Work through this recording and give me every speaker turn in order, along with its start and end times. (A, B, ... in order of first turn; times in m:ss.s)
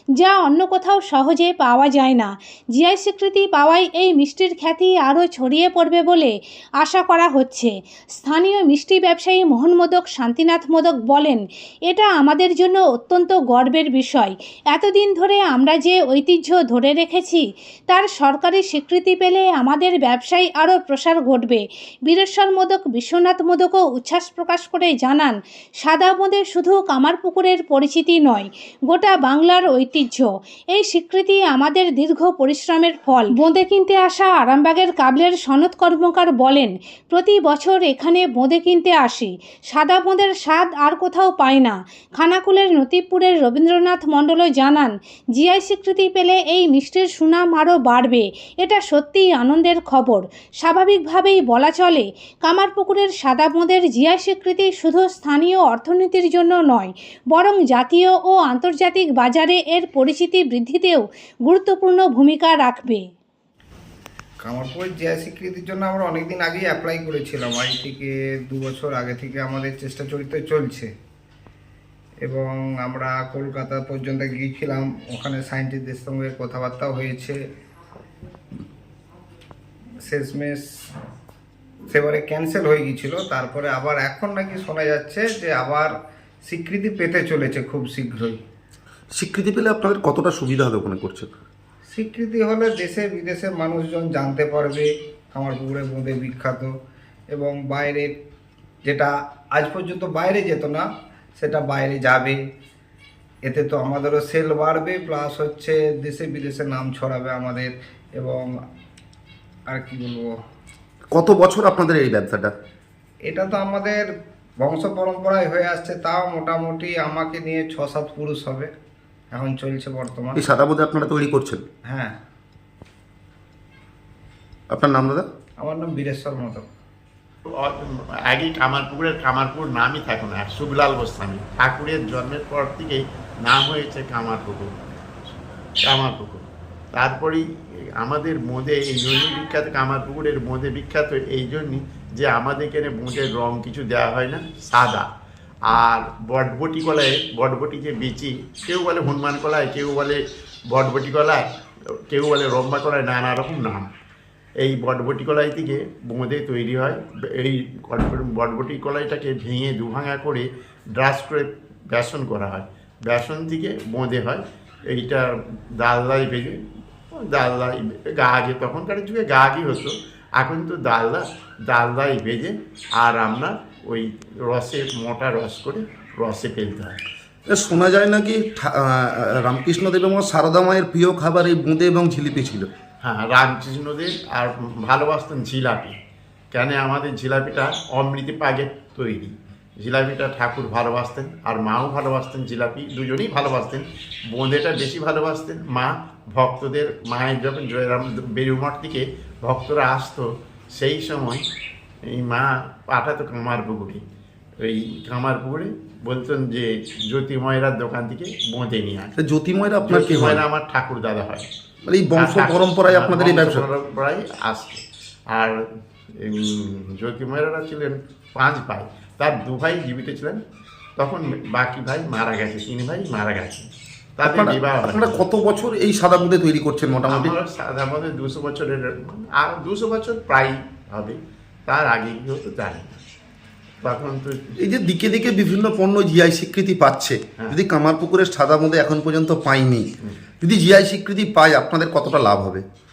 0:00.2-1:03.1 A
1:04.4-1:10.9 B
1:12.2-1:17.4 B
1:20.1-1:20.6 B
1:21.9-1:25.9 B
1:26.5-1:28.4 B
1:29.1-1:31.4 C
1:31.9-1:36.7 B
1:37.3-1:38.1 B
1:38.9-1:40.8 B
1:41.4-1:42.4 B
1:43.5-1:48.5 B
1:49.7-1:50.4 B
1:51.1-1:52.5 C
1:53.3-1:54.0 B
1:54.6-1:58.7 B
1:59.3-2:00.4 B
2:00.4-2:01.6 C
2:01.9-2:02.1 B
2:04.7-2:05.3 C
2:05.6-2:06.6 B
2:07.5-2:14.7 D
2:15.8-2:16.4 D
2:17.0-2:17.5 D
2:18.0-2:25.1 D
2:25.6-2:31.4 D
2:32.1-2:33.9 D
2:34.6-2:46.6 D
2:47.1-2:57.0 D
2:57.5-3:02.7 C
3:03.0-3:06.0 D
3:06.5-3:21.4 D
3:22.1-3:24.0 D
3:24.6-3:29.1 D
3:29.2-3:30.4 C
3:29.8-3:31.5 D
3:31.9-3:33.7 C
3:32.1-3:35.6 D
3:36.2-3:40.4 D
3:41.0-3:43.7 D
3:44.2-3:45.3 D
3:44.3-3:47.3 C
3:47.0-3:53.0 D
3:53.8-3:54.5 D
3:54.6-3:59.9 C
4:00.4-4:02.6 C